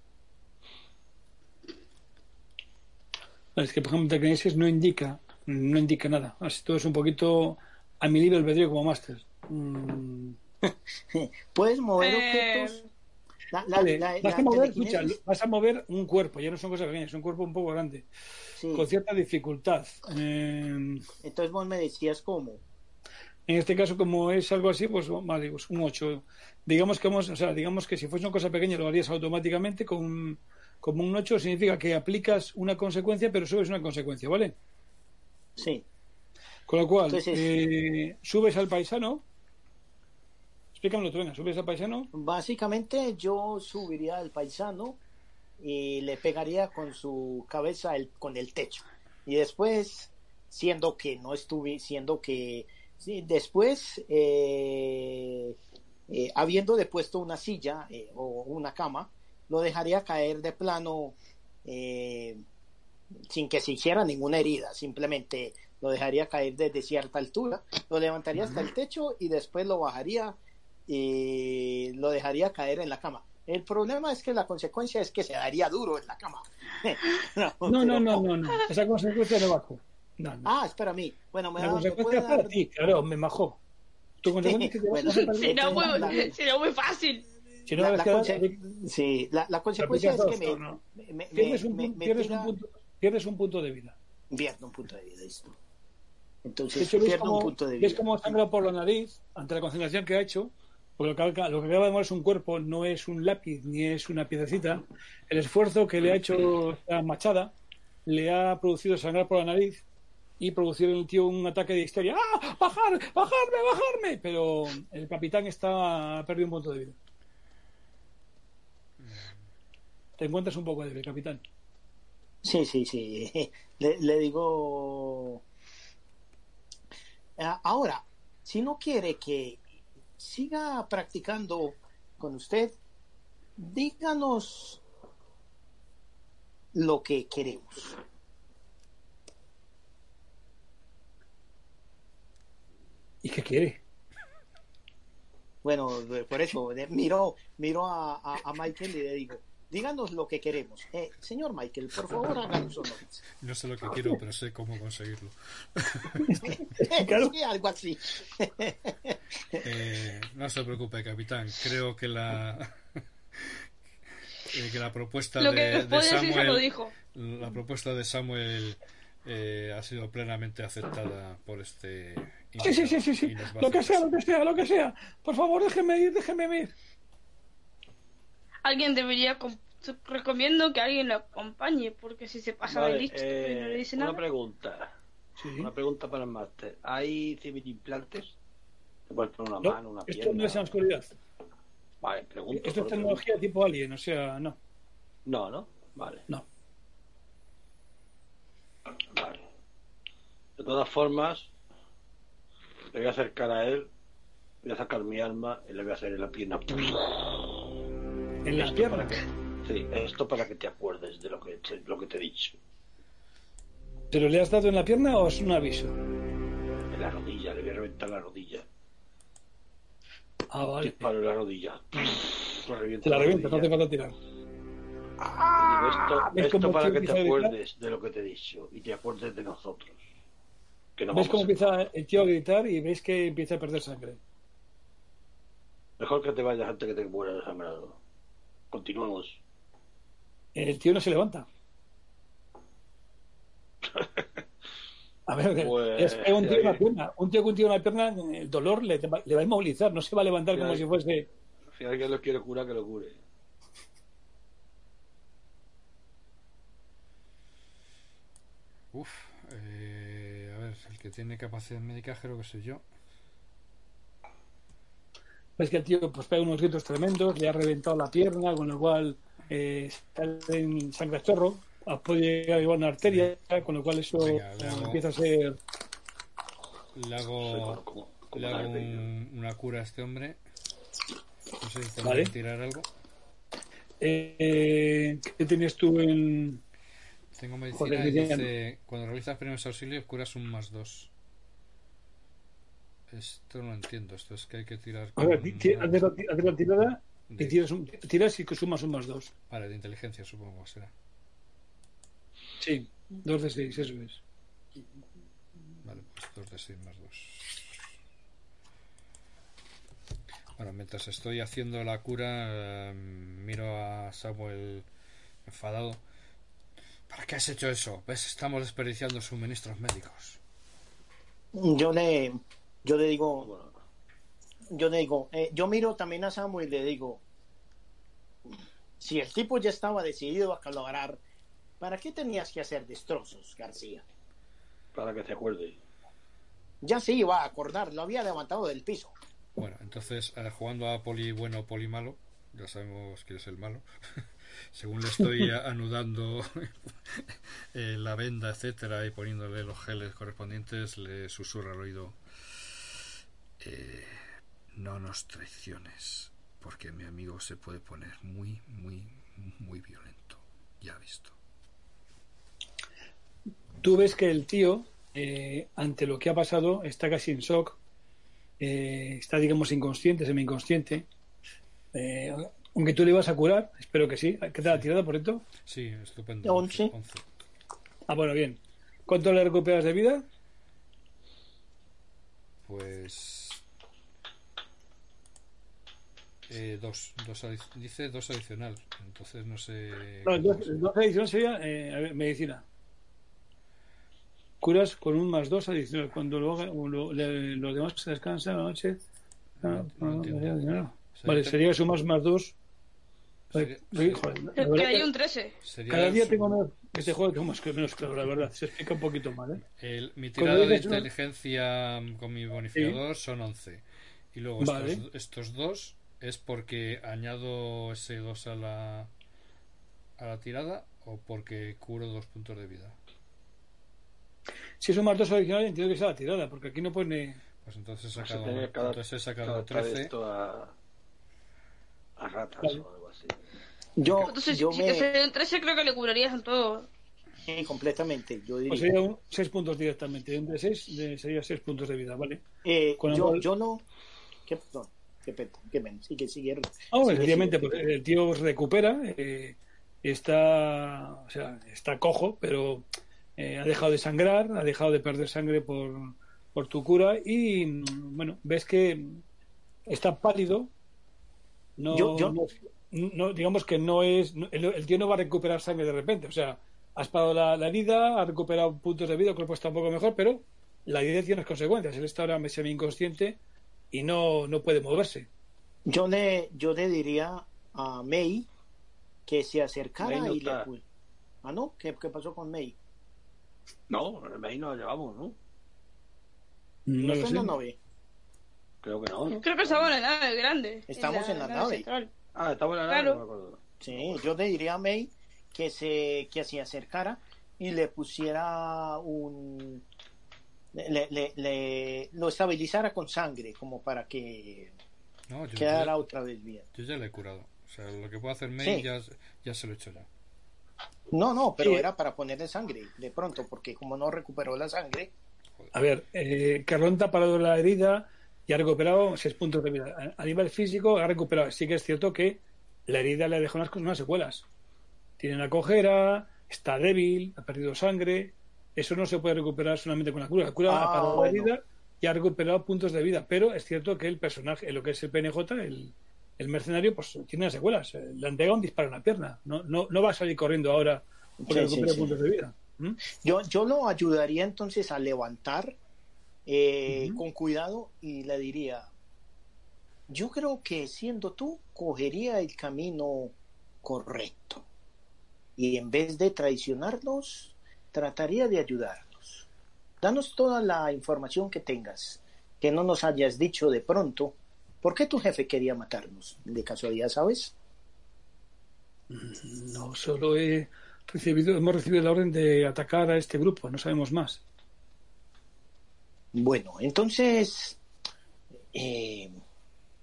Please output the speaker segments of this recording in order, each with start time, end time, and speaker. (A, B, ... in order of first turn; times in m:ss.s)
0:03.6-0:10.4 A
0:11.1-0:12.9 B
0:12.0-0:12.8 C
0:13.5-0:15.2 B
0:13.7-0:18.1 A
0:18.6-0:18.9 B
0:18.7-0:21.0 A
0:21.2-0:22.6 B
0:23.5-0:34.6 A
0:35.6-0:35.8 B
0:36.7-0:39.2 A
0:37.1-0:37.5 B
0:40.7-0:42.1 A
0:42.1-0:45.0 B
0:45.6-0:55.6 B
0:56.1-1:02.4 B
1:03.2-1:18.2 B
1:17.6-1:20.5 A
1:20.4-1:22.6 B
1:21.6-1:23.6 A
1:24.2-1:26.3 A
1:24.4-1:26.3 B
1:25.1-1:27.2 C
1:27.7-1:28.6 A
1:27.7-1:32.5 B
1:29.8-1:30.8 A
1:31.3-1:34.0 A
1:34.3-1:35.6 B
1:36.4-1:38.4 B
1:36.7-1:47.5 A
1:48.0-1:49.8 A
1:50.4-1:57.0 A
1:59.0-1:59.4 D
2:00.2-2:01.4 A
2:02.4-2:05.4 B
2:07.4-2:09.6 B
2:10.2-2:12.8 B
2:13.6-2:14.8 B
2:16.7-2:18.0 B
2:23.2-2:23.8 A
2:25.6-2:33.2 B
2:33.4-2:36.5 D
2:36.2-2:37.3 A
2:36.8-2:39.6 B
2:39.6-2:43.6 D
2:44.5-2:54.1 D
2:45.4-2:46.9 C
2:52.6-2:56.7 A
2:58.6-3:04.2 C
3:02.7-3:04.9 E
3:05.4-3:05.7 A
3:05.6-3:08.3 E
3:09.1-3:10.8 E
3:09.6-3:11.1 A
3:12.0-3:13.2 E
3:12.5-3:14.6 A
3:15.2-3:16.2 E
3:19.1-3:19.4 E
3:20.6-3:21.5 E
3:22.9-3:23.9 E
3:24.6-3:27.4 E
3:28.4-3:29.2 A
3:28.5-3:32.6 E
3:34.1-3:35.9 A
3:36.9-3:38.6 E
3:40.5-3:41.1 A
3:40.8-3:43.7 E
3:43.0-3:44.1 A
3:45.2-3:50.0 E
3:45.6-3:47.6 A
3:51.0-3:51.7 E
3:51.1-3:54.2 A
3:56.0-3:58.0 E
3:58.7-3:59.4 E
4:00.5-4:01.4 A
4:03.9-4:04.4 E
4:05.3-4:11.3 A
4:05.6-4:06.8 E
4:10.5-4:10.8 E
4:11.8-4:13.2 E
4:18.9-4:22.8 D
4:25.6-4:35.6 A
4:33.0-4:33.3 D
4:34.2-4:35.0 D
4:36.9-4:37.8 D
4:37.4-4:39.1 E
4:38.3-4:40.4 D
4:41.6-4:42.9 D
4:42.0-4:42.3 A
4:44.0-4:46.6 A
4:47.3-4:51.1 D
4:47.8-4:48.5 A
4:53.1-4:56.1 D
4:55.2-4:59.3 A
4:57.3-4:57.6 D
4:59.5-5:00.9 D
5:02.6-5:04.2 A
5:05.8-5:07.7 D
5:10.6-5:14.8 D
5:15.4-5:16.0 D
5:17.1-5:20.4 D
5:21.5-5:23.5 B
5:23.4-5:23.8 E
5:24.7-5:27.2 B
5:29.0-5:31.2 B
5:31.8-5:34.0 B
5:34.9-5:35.8 E
5:36.8-5:39.1 B
5:39.6-5:52.2 D
5:53.6-5:54.2 D
5:54.7-6:01.4 D
6:03.8-6:07.8 A
6:08.6-6:11.1 A
6:11.9-6:15.4 A
6:15.6-6:17.4 D
6:16.4-6:16.9 B
6:18.1-6:20.2 A
6:22.6-6:23.6 D
6:26.5-6:30.8 D
6:30.2-6:32.6 A
6:34.6-6:39.0 A
6:39.6-6:41.6 D
6:39.6-6:42.5 A
6:43.5-6:45.0 D
6:43.5-6:45.1 A
6:44.6-6:45.6 C
6:45.6-6:46.6 D
6:45.9-6:49.6 A
6:49.7-6:59.1 D
6:50.4-6:51.1 A
6:54.6-6:55.0 A
7:00.2-7:03.0 D
7:04.8-7:07.4 A
7:07.6-7:10.1 D
7:08.2-7:10.7 E
7:12.2-7:13.4 E
7:14.0-7:15.1 B
7:14.2-7:16.9 C
7:17.4-7:18.9 B
7:18.7-7:22.4 A
7:22.6-7:23.8 B
7:23.0-7:23.4 A
7:24.5-7:27.8 B
7:26.9-7:32.8 A
7:33.4-7:39.2 A
7:39.9-7:40.7 A
7:41.8-7:53.4 A
7:41.9-7:42.4 B
7:53.9-7:55.3 A
7:55.8-7:58.5 B
7:59.2-8:00.8 B
8:00.0-8:00.6 E
8:01.4-8:02.8 B
8:03.9-8:05.4 E
8:06.9-8:07.6 A
8:07.0-8:07.8 B
8:08.8-8:09.9 E
8:09.3-8:12.1 C
8:10.9-8:11.8 B
8:12.3-8:14.2 E
8:12.9-8:13.2 C
8:13.8-8:19.8 B
8:20.7-8:24.7 B
8:25.3-8:25.9 D
8:25.6-8:26.6 B
8:26.7-8:30.1 D
8:28.6-8:28.8 B
8:31.1-8:35.1 B
8:31.6-8:31.8 A
8:35.7-8:44.4 A
8:45.2-9:03.0 A
8:50.7-8:51.5 B
9:01.4-9:02.2 B
9:03.2-9:05.8 B
9:06.4-9:08.9 B
9:06.9-9:07.2 A
9:10.1-9:14.6 B
9:15.6-9:19.4 B
9:20.0-9:27.5 B
9:29.1-9:34.4 A
9:36.3-9:37.8 B
9:38.7-9:39.3 B